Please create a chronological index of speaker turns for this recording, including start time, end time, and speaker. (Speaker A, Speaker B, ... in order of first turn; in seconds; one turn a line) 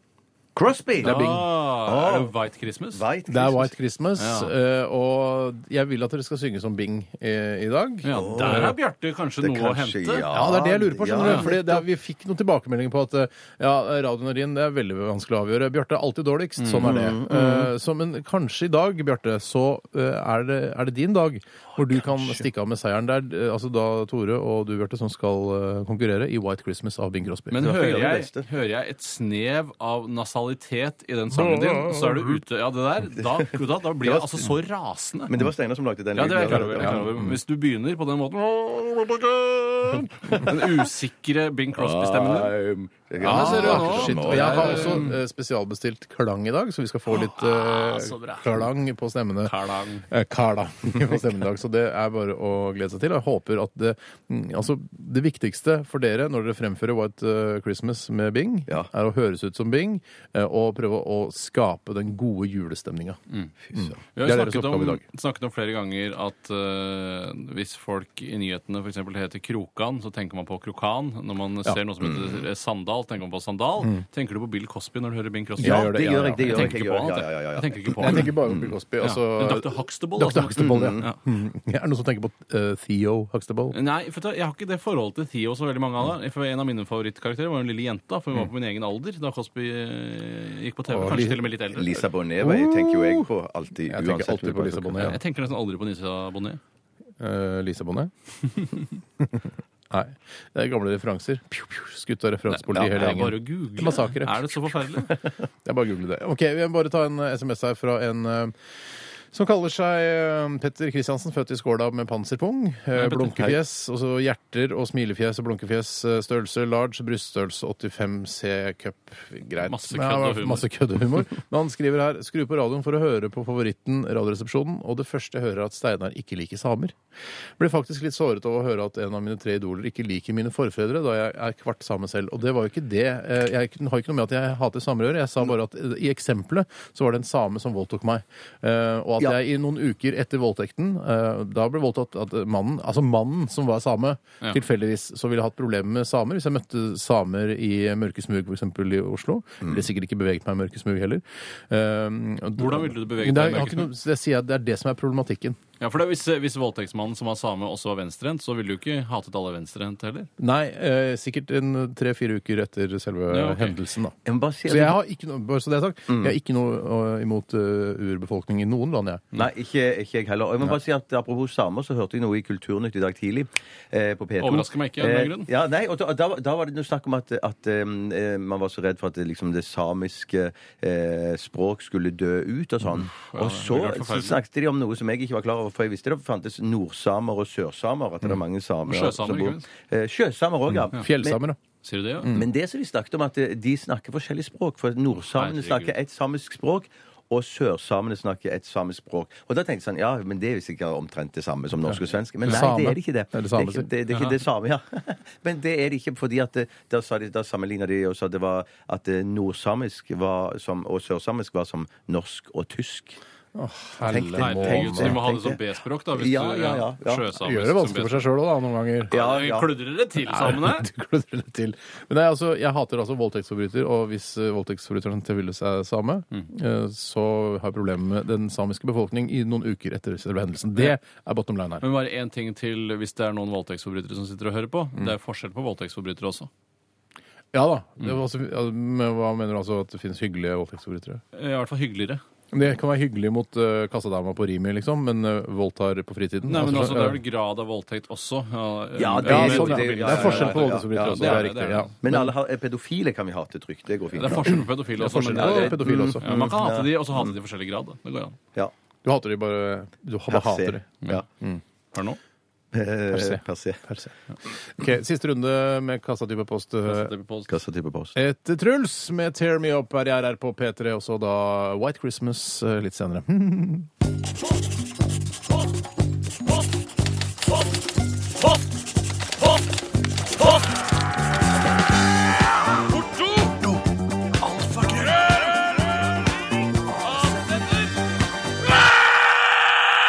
Speaker A: 0.5-2.3
Speaker B: 1.0-3.0
Speaker C: 1.0-1.4
Speaker A: 2.9-3.7
Speaker C: 3.3-8.8
Speaker B: 4.2-4.5
Speaker B: 8.0-10.2
Speaker A: 8.1-8.8
Speaker A: 9.4-11.8
Speaker C: 10.3-27.7
Speaker B: 11.2-11.5
Speaker B: 16.6-17.1
Speaker A: 16.8-17.7
Speaker A: 21.8-22.4
Speaker B: 27.5-35.3
Speaker A: 27.5-28.5
Speaker C: 31.3-32.3
Speaker A: 34.0-34.5
Speaker A: 35.3-37.0
Speaker B: 36.1-45.1
Speaker C: 36.5-37.3
Speaker A: 41.7-45.1
Speaker C: 43.2-49.5
Speaker B: 47.1-48.7
Speaker B: 49.4-50.1
Speaker C: 50.1-63.2
Speaker A: 63.7-63.9
Speaker C: 63.7-65.0
Speaker B: 64.1-78.3
Speaker A: 72.0-72.3
Speaker C: 75.6-76.8
Speaker A: 75.6-78.7
Speaker C: 78.0-83.8
Speaker B: 79.0-81.2
Speaker A: 80.6-81.0
Speaker B: 83.7-92.0
Speaker C: 90.9-91.4
Speaker A: 91.7-95.1
Speaker C: 92.4-93.3
Speaker C: 93.9-95.2
Speaker B: 95.0-96.6
Speaker C: 97.2-98.1
Speaker C: 99.2-104.7
Speaker B: 102.5-105.1
Speaker C: 105.6-108.5
Speaker C: 109.3-127.0
Speaker B: 112.9-113.6
Speaker B: 119.6-120.7
Speaker C: 127.6-155.6
Speaker B: 152.6-153.9
Speaker B: 155.8-160.3
Speaker C: 160.4-164.1
Speaker B: 163.3-163.8
Speaker A: 164.2-165.0
Speaker C: 164.7-169.2
Speaker A: 166.1-166.3
Speaker A: 169.3-191.4
Speaker B: 174.4-175.5
Speaker B: 183.2-184.4
Speaker B: 188.8-189.7
Speaker C: 190.8-191.6
Speaker B: 191.8-192.3
Speaker C: 192.2-192.5
Speaker A: 192.3-213.2
Speaker B: 195.3-195.9
Speaker C: 201.8-203.8
Speaker B: 204.1-204.4
Speaker C: 213.5-215.2
Speaker A: 214.1-215.6
Speaker B: 214.4-218.3
Speaker A: 216.1-217.2
Speaker C: 217.3-219.1
Speaker B: 219.1-220.9
Speaker A: 219.1-219.7
Speaker C: 220.2-231.8
Speaker B: 231.8-236.5
Speaker C: 237.5-241.2
Speaker B: 241.3-242.2
Speaker C: 242.5-247.2
Speaker B: 246.5-251.9
Speaker A: 249.0-251.4
Speaker C: 249.2-252.3
Speaker A: 252.0-254.7
Speaker B: 254.2-258.4
Speaker C: 254.5-256.5
Speaker A: 255.4-257.3
Speaker C: 259.0-261.6
Speaker A: 260.3-261.2
Speaker B: 261.9-262.2
Speaker A: 262.7-263.8
Speaker C: 263.1-264.1
Speaker C: 264.7-267.1
Speaker B: 266.9-267.5
Speaker A: 267.5-268.1
Speaker C: 268.1-273.9
Speaker B: 282.8-283.8
Speaker B: 284.4-285.8
Speaker B: 287.0-287.9